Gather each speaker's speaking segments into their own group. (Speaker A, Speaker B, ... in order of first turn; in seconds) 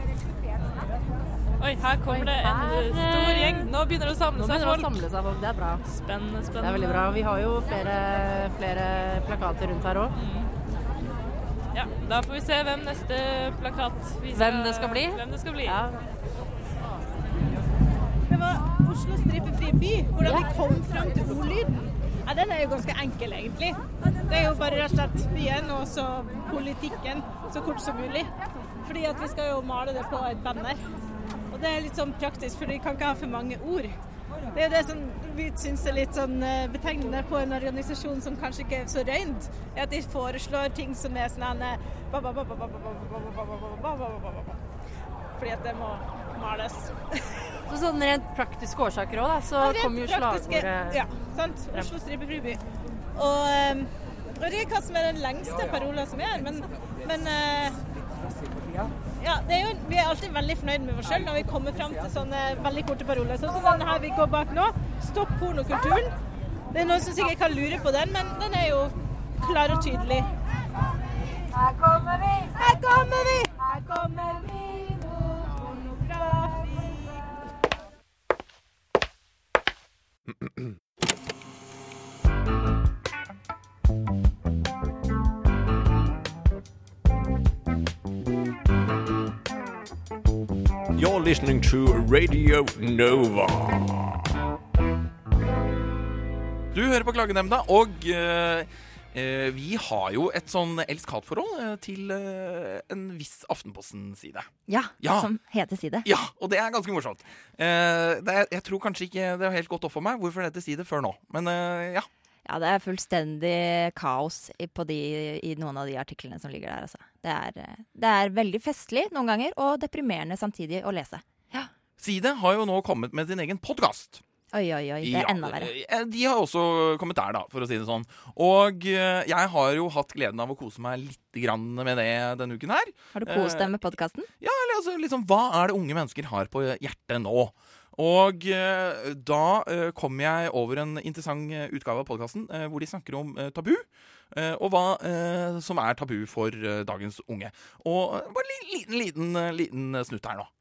Speaker A: 1.6-4.9, 5.9-7.1, 10.2-10.5, 11.7-15.8
Speaker B: 2.1-3.6, 4.4-5.8, 6.6-10.1, 14.3-15.9, 47.7-51.0
Speaker C: 18.3-28.3, 28.8-30.8, 31.5-34.0, 34.5-44.6, 45.4-47.1, 49.6-52.6, 53.1-57.8, 59.2-66.1, 66.7-70.2, 72.5-74.4, 76.0-76.7
Speaker D: 96.7-105.3, 106.0-112.1, 122.0-124.2, 125.0-133.7, 134.4-150.5
Speaker E: 104.7-106.0, 112.5-121.7, 124.5-125.7, 133.1-134.3